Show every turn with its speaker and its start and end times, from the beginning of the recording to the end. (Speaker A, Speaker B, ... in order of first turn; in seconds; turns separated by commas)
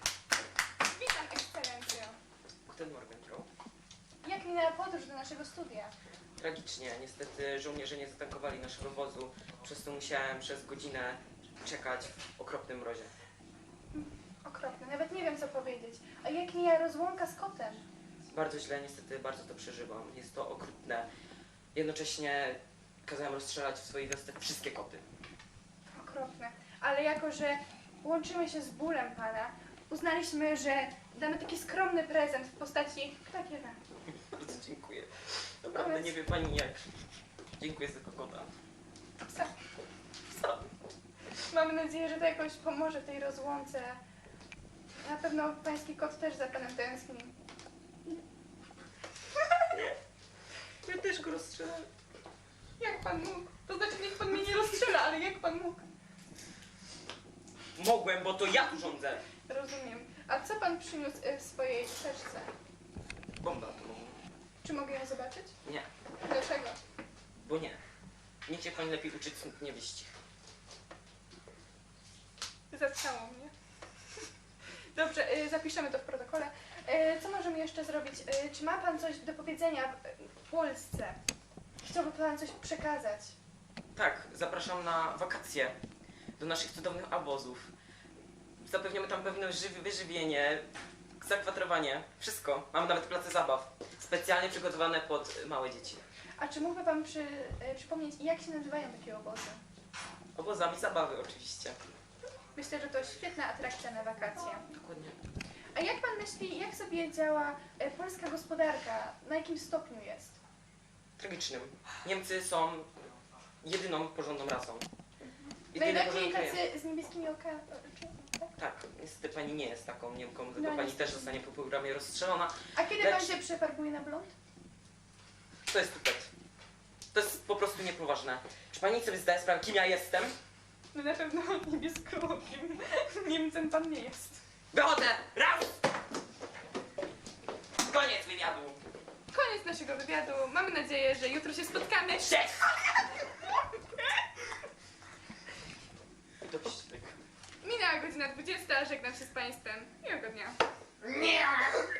Speaker A: 0.8-2.1, Speaker B: 2.6-3.5, Speaker A: 4.2-5.9, Speaker B: 6.4-13.1, Speaker A: 13.9-17.8, Speaker B: 18.3-21.1, Speaker B: 21.7-25.0, Speaker A: 25.9-33.8, Speaker B: 34.3-36.8, Speaker A: 35.7-36.1, Speaker B: 37.6-38.5, Speaker A: 41.5-44.0, Speaker A: 45.0-47.3, Speaker B: 50.8-51.9, Speaker A: 52.8-55.8, Speaker B: 57.8-59.2, Speaker A: 59.5-62.5, Speaker B: 63.4-64.2, Speaker A: 64.6-65.5, Speaker A: 66.2-66.8, Speaker B: 67.4-67.8, Speaker B: 68.5-70.1, Speaker A: 72.7-73.5, Speaker A: 74.9-81.2, Speaker A: 81.8-83.3, Speaker B: 83.9-85.8, Speaker B: 86.4-87.7, Speaker B: 88.6-90.7, Speaker B: 91.2-96.0, Speaker A: 96.4-99.6, Speaker B: 100.3-101.8, Speaker A: 102.5-104.7, Speaker B: 104.6-105.2, Speaker A: 105.7-110.4, Speaker B: 111.2-112.9, Speaker B: 113.6-114.9, Speaker A: 115.2-118.5, Speaker B: 115.7-116.6, Speaker B: 118.5-123.4, Speaker A: 120.5-121.3, Speaker A: 122.7-124.3, Speaker B: 125.7-126.3, Speaker B: 127.1-130.3, Speaker A: 130.9-134.4, Speaker B: 134.7-135.8, Speaker B: 137.8-138.8, Speaker A: 139.3-142.4, Speaker B: 142.2-142.8, Speaker B: 146.4-147.2, Speaker A: 147.6-150.6, Speaker B: 151.1-151.7